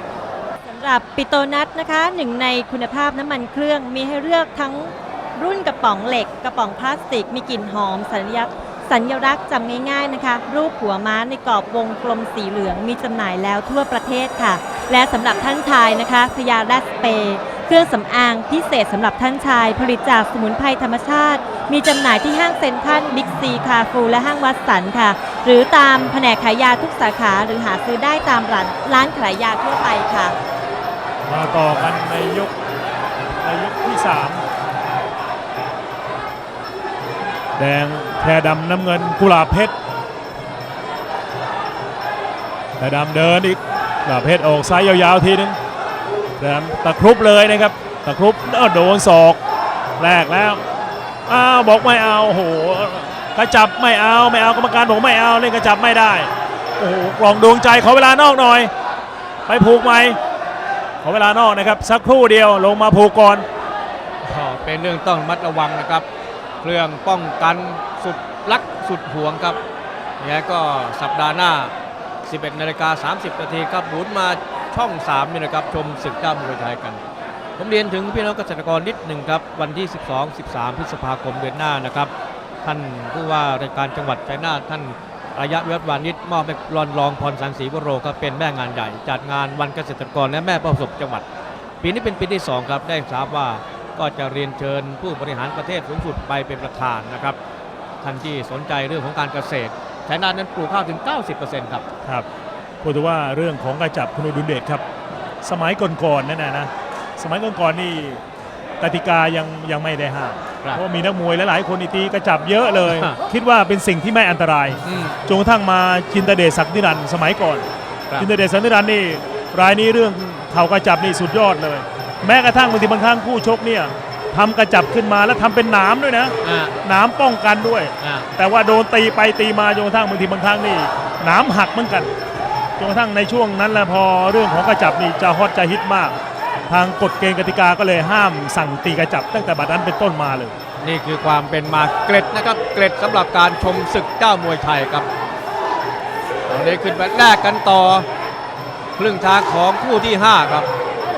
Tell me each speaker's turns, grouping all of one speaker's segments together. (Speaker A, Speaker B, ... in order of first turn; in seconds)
Speaker A: 0.6-30.4
Speaker B: 31.2-32.5, 33.4-34.4, 37.5-39.7, 42.8-45.6, 46.4-49.4, 50.0-50.6, 51.3-58.7, 59.5-60.2, 61.0-63.5, 102.8-104.8, 105.4-108.2, 108.8-117.7, 118.2-132.1, 132.8-136.2, 136.7-140.5
Speaker C: 64.2-66.0, 66.6-69.6, 70.2-71.7, 72.2-77.0, 77.6-82.1, 82.6-91.2, 91.8-97.4, 98.0-101.8, 112.9-113.2, 114.8-115.2, 126.4-126.7, 128.0-128.3, 140.8-145.1, 146.5-148.1, 149.0-150.7